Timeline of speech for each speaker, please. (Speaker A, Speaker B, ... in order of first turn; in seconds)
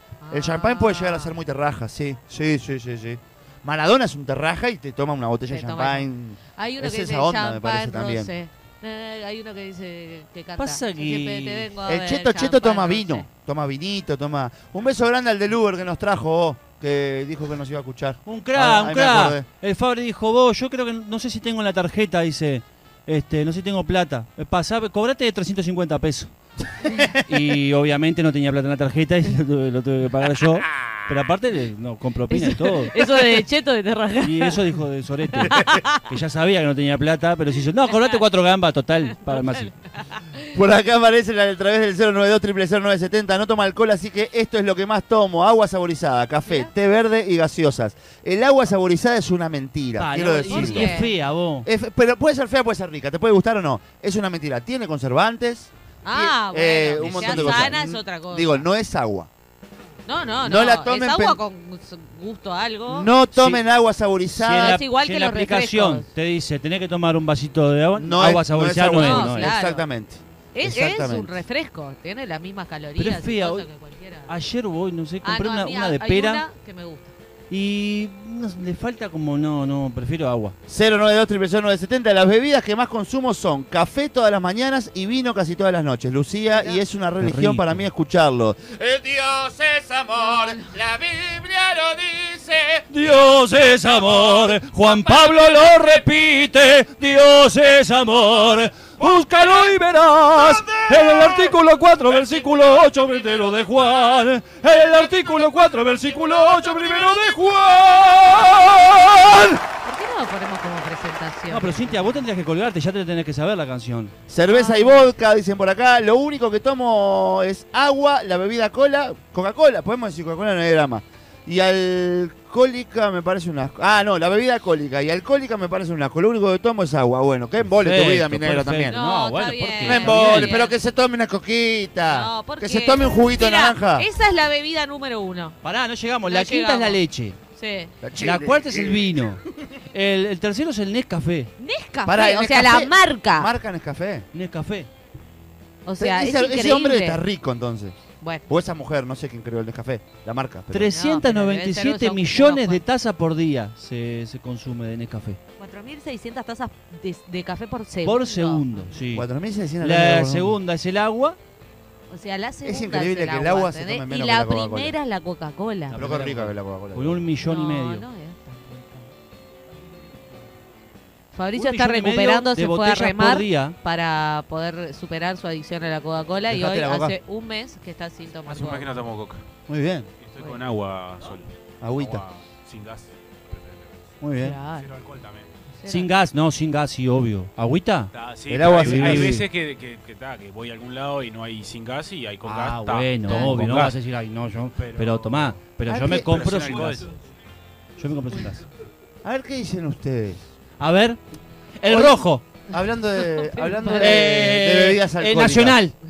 Speaker A: 0.2-1.4, 5.5-13.2, 32.3-34.6, 35.3-36.1, 37.8-38.2, 39.2-40.5, 50.4-51.1, 56.0-58.6, 60.0-63.1, 64.5-66.1, 68.9-69.8, 70.5-74.3, 75.2-77.1, 109.8-112.2, 114.5-115.1, 128.9-130.8, 132.1-135.6, 136.2-137.0, 137.6-137.9, 141.6-143.5, 145.8-147.2, 150.9-152.8, 155.6-158.9, 162.1-166.0, 167.4-169.1, 171.3-179.0, 184.4-184.9, 185.8-186.1, 193.3-193.6, 203.2-204.4
Speaker B: 0.3-8.3, 11.8-19.4, 26.8-27.3, 35.5-35.8, 40.5-51.0, 51.6-59.3, 60.4-61.4, 62.9-64.8, 68.0-71.3, 80.7-92.8, 100.4-101.2, 114.3-129.0, 129.8-134.1, 138.0-139.7, 142.1-144.3, 146.0-147.9, 148.5-150.9, 159.1-160.6, 162.6-164.9, 165.9-167.2, 176.5-177.2, 179.7-180.1, 181.8-182.2, 184.2-184.6, 188.5-189.4, 195.9-196.3, 199.2-200.5, 201.8-205.8
Speaker C: 10.6-11.7, 18.2-26.3, 27.2-33.4, 34.2-39.8, 50.0-51.7, 57.0-57.8, 63.3-63.6, 64.3-69.5, 73.0-73.7, 74.3-76.4, 77.5-80.5, 87.2-87.9, 92.9-109.6, 111.5-114.1, 127.7-130.5, 135.6-137.4, 138.2-141.5, 144.3-144.9, 150.7-155.4, 158.0-159.3, 159.8-161.4, 165.9-168.0, 171.5-173.8, 185.8-188.1, 188.7-189.4, 192.4-197.1, 198.0-198.6, 200.8-201.2, 201.8-202.4, 203.9-205.9
Speaker D: 178.5-179.4, 180.2-184.0, 184.7-185.5, 188.1-194.0, 194.7-195.6, 196.2-197.1